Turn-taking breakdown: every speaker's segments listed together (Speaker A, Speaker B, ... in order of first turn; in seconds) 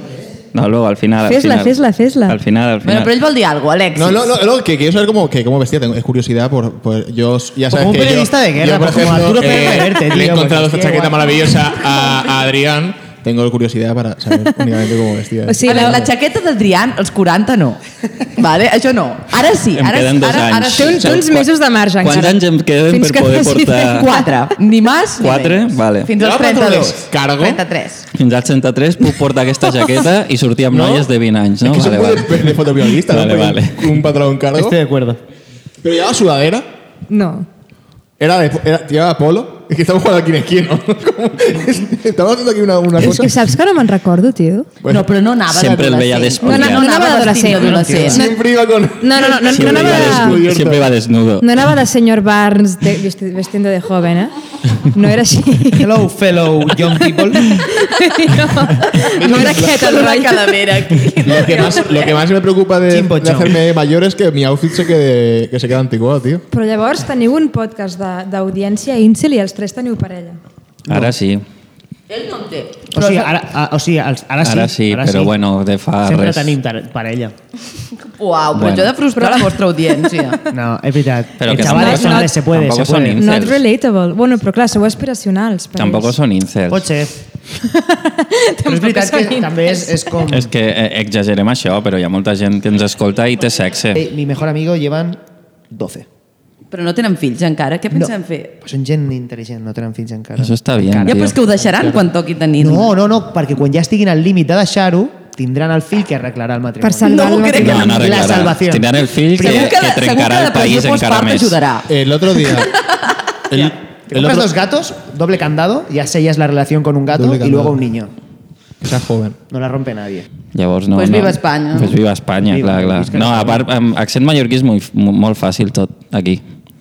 Speaker A: 0.5-3.1, 19.7-21.4, 22.0-24.1, 25.2-26.1, 28.1-33.9, 45.5-46.9, 49.5-51.5, 70.9-71.4, 74.4-76.5, 78.5-78.9, 81.4-83.6, 85.8-86.8, 90.3-94.0, 100.4-101.3, 107.6-111.6, 120.5-126.4
Speaker B: 1.2-2.4, 15.4-16.1, 20.7-24.3, 37.1-37.5, 43.0-44.7, 46.4-48.4, 49.0-50.5, 51.4-55.9, 57.0-60.5, 66.5-70.4, 79.2-80.4, 81.5-82.3, 83.2-86.1, 87.6-90.2, 106.8-108.0
Speaker C: 2.8-4.4, 15.6-17.8, 18.3-21.1, 23.9-28.1, 44.9-48.2, 59.2-62.2, 72.1-73.4, 78.0-80.4, 96.7-98.5, 101.0-102.9, 107.0-108.2, 109.4-113.2, 120.9-122.0
Speaker D: 3.9-16.1, 26.2-27.6, 31.6-34.8, 35.8-36.6, 38.2-43.5, 48.1-50.9, 59.0-60.0, 61.2-66.4, 111.9-112.8, 113.5-114.5, 117.1-117.8, 118.8-119.4
Speaker E: 7.7-11.5, 30.7-31.1, 34.5-35.2, 47.5-48.2, 55.7-57.6, 62.9-63.6, 70.9-71.1, 72.9-75.3, 76.0-77.3, 80.5-83.2, 86.7-87.2, 88.6-90.5, 93.9-96.1, 97.9-109.7, 113.6-118.1, 119.5-120.3, 122.5-123.7